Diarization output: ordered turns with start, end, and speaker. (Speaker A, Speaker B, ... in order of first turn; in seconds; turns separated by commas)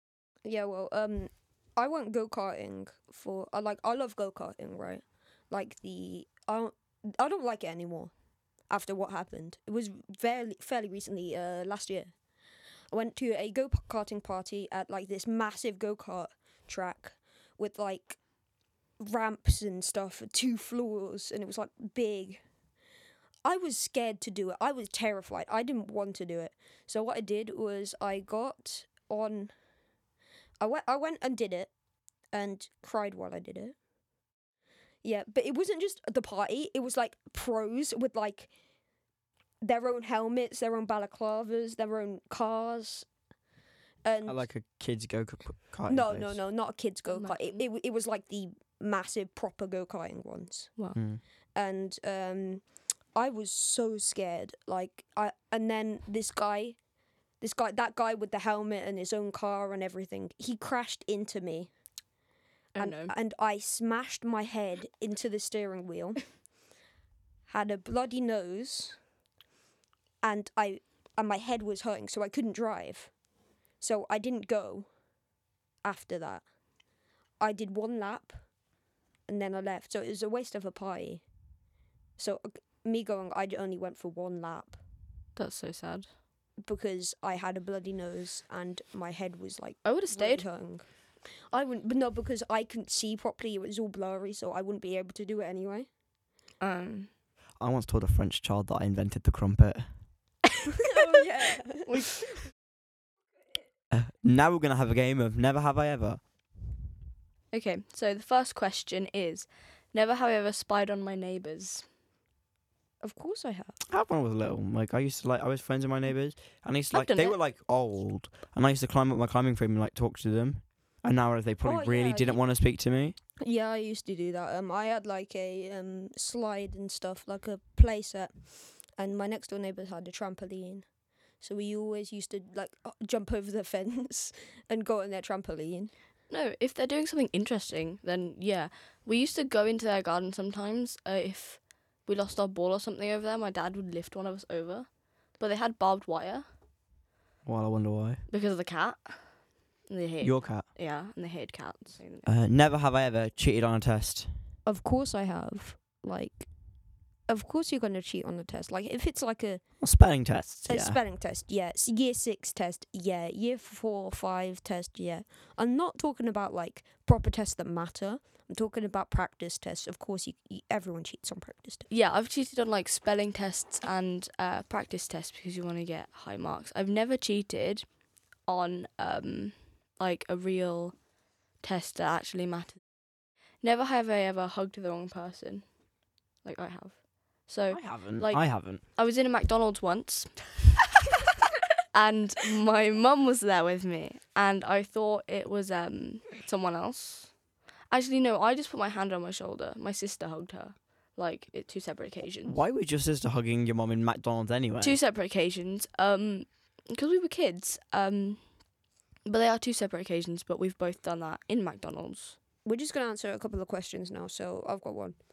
Speaker A: 0.5-8.1, Speaker A: 8.7-12.1, Speaker A: 12.9-18.2, Speaker A: 19.0-22.4, Speaker A: 23.4-29.5, Speaker A: 30.6-31.7, Speaker A: 32.3-33.8, Speaker A: 35.0-38.5, Speaker A: 39.6-43.1, Speaker A: 44.0-44.5, Speaker B: 44.3-46.4, Speaker A: 45.9-50.7, Speaker C: 47.1-47.6, Speaker B: 50.9-51.2, Speaker A: 51.5-52.6, Speaker A: 53.1-56.8, Speaker A: 57.4-61.7, Speaker C: 62.8-63.1, Speaker A: 62.8-66.2, Speaker A: 67.5-69.0, Speaker A: 70.2-73.1, Speaker A: 73.8-74.9, Speaker A: 75.8-76.5, Speaker A: 77.4-78.4, Speaker A: 79.3-81.2, Speaker A: 82.2-84.8, Speaker C: 85.4-86.1, Speaker A: 86.6-90.9, Speaker C: 89.8-90.5, Speaker A: 91.5-95.9, Speaker C: 96.6-97.1, Speaker B: 97.6-99.9, Speaker A: 100.9-101.9, Speaker C: 101.9-102.4, Speaker B: 103.9-106.2, Speaker C: 107.5-111.9, Speaker A: 113.0-113.8, Speaker B: 113.9-123.2, Speaker C: 116.9-117.4, Speaker A: 121.6-122.4, Speaker A: 123.4-130.9, Speaker A: 131.4-135.9, Speaker C: 136.3-146.5, Speaker B: 147.4-148.2, Speaker C: 148.3-152.3, Speaker B: 150.2-150.7, Speaker B: 152.2-154.3, Speaker A: 154.7-156.5, Speaker A: 157.3-159.6, Speaker B: 159.8-161.0, Speaker A: 160.7-171.9, Speaker C: 171.9-177.9, Speaker C: 178.5-181.0, Speaker C: 181.6-182.8, Speaker C: 183.6-185.7, Speaker C: 186.4-190.6, Speaker B: 187.7-188.8, Speaker C: 191.9-197.3, Speaker C: 197.9-202.6, Speaker B: 202.4-205.0, Speaker C: 204.8-208.4, Speaker C: 209.2-212.4, Speaker A: 212.7-215.2